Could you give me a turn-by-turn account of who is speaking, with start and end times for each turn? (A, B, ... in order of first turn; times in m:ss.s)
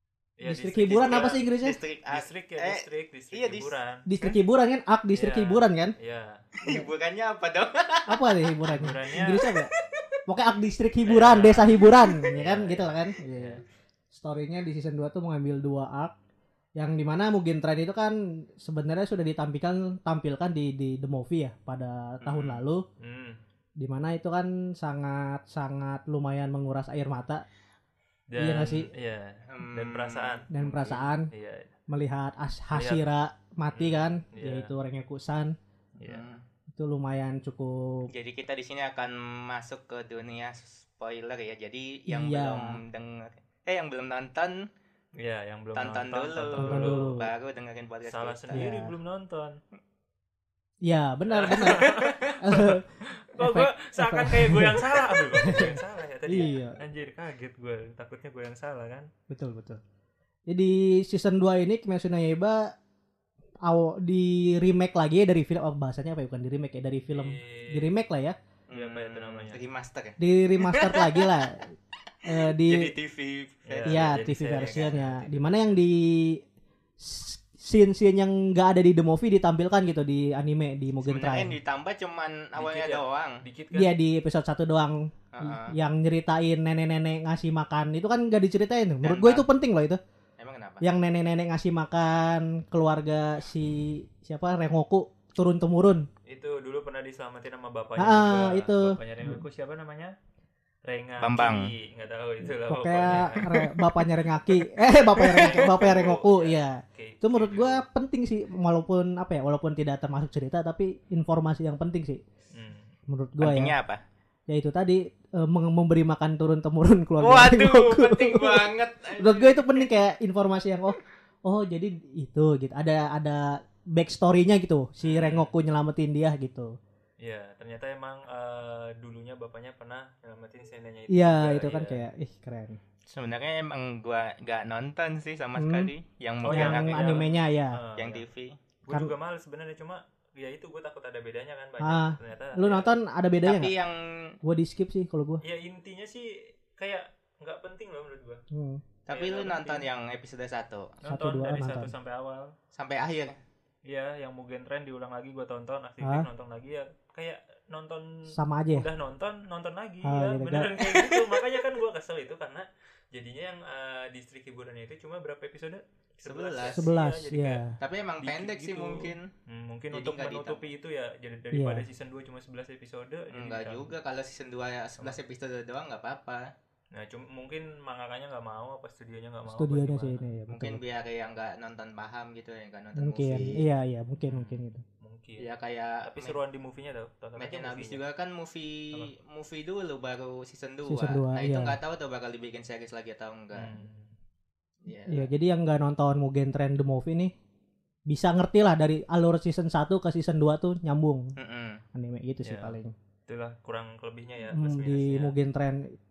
0:00.4-0:01.4 A
0:00.5-0:01.8 B
0:00.8-0:03.7 C
0:02.1-0:04.1 A
0:04.1-0:06.0 B
0:05.2-0:06.4 A
0:06.6-0:10.0 C
0:06.6-0:06.9 B
0:08.1-0:09.7 B
0:08.7-0:09.4 A
0:10.3-0:13.6 B
0:11.1-0:13.6 A
0:12.1-0:12.4 C
0:14.1-0:16.1 B
0:16.8-0:22.8 B
0:22.2-0:22.6 C
0:23.0-0:23.4 A
0:23.8-0:27.4 B
0:28.3-0:30.5 A
0:28.4-0:28.9 B
0:29.5-0:31.1 C
0:30.5-0:31.3 B
0:31.3-0:31.7 A
0:31.9-0:35.6 B
0:32.7-0:33.0 A
0:33.7-0:34.7 A
0:36.0-0:36.2 A
0:36.0-0:36.4 C
0:36.7-0:38.1 B
0:38.1-0:44.6 C
0:42.1-0:42.8 B
0:45.2-0:47.1 A
0:45.8-0:48.6 C
0:46.6-0:47.3 B
0:48.1-0:49.6 A
0:48.5-0:48.9 B
0:50.8-0:52.8 B
0:51.3-0:59.1 A
0:53.4-0:56.8 B
0:59.3-0:59.8 B
1:00.5-1:02.7 B
1:03.6-1:08.4 B
1:07.1-1:07.9 A
1:08.7-1:11.5 C
1:08.7-1:09.6 A
1:10.2-1:11.7 B
1:12.3-1:12.9 B
1:12.4-1:14.9 C
1:13.7-1:15.7 A
1:13.9-1:16.4 B
1:17.0-1:21.6 B
1:21.0-1:23.4 C
1:22.6-1:23.9 A
1:23.7-1:30.0 B
1:25.3-1:25.7 C
1:29.0-1:29.4 C
1:30.4-1:30.8 C
1:30.8-1:36.1 B
1:36.3-1:40.2 A
1:38.0-1:39.4 B
1:40.8-1:43.5 A
1:41.2-1:41.7 C
1:42.6-1:52.2 B
1:43.1-1:43.7 C
1:45.2-1:47.8 A
1:45.2-1:46.1 C
1:52.5-1:52.9 A
1:53.1-1:53.8 B
1:53.4-1:54.0 C
1:54.5-2:06.7 B
1:57.2-1:59.9 C
2:05.0-2:05.5 A
2:07.2-2:12.0 A
2:11.1-2:12.8 B
2:13.1-2:17.2 C
2:15.6-2:15.9 B
2:16.4-2:18.2 A
2:16.5-2:17.8 B
2:18.0-2:18.6 C
2:18.9-2:22.9 A
2:21.8-2:23.7 B
2:23.4-2:24.4 C
2:24.4-2:25.4 B
2:25.4-2:28.4 A
2:28.5-2:28.8 B
2:29.1-2:30.9 C
2:29.1-2:29.8 A
2:31.0-2:32.5 A
2:31.1-2:31.9 B
2:32.7-2:33.4 C
2:33.9-2:47.6 A
2:38.3-2:38.9 B
2:40.0-2:40.7 B
2:40.9-2:41.4 C
2:46.3-2:46.8 C
2:46.8-2:47.8 B
2:47.8-2:49.3 C
2:48.2-2:53.9 A
2:49.9-2:50.6 C
2:51.5-2:51.8 B
2:53.3-2:56.5 C
2:56.9-3:00.2 A
2:59.5-3:00.8 B
3:00.5-3:03.6 C
3:03.0-3:04.8 B
3:04.3-3:05.5 A
3:05.4-3:06.4 C
3:06.0-3:08.0 A
3:07.4-3:13.8 C
3:10.9-3:11.8 B
3:13.6-3:14.1 A
3:14.8-3:15.3 C
3:15.1-3:17.3 B
3:18.1-3:21.3 B
3:21.4-3:21.8 C
3:21.9-3:22.9 B
3:22.4-3:25.3 A
3:24.6-3:26.0 B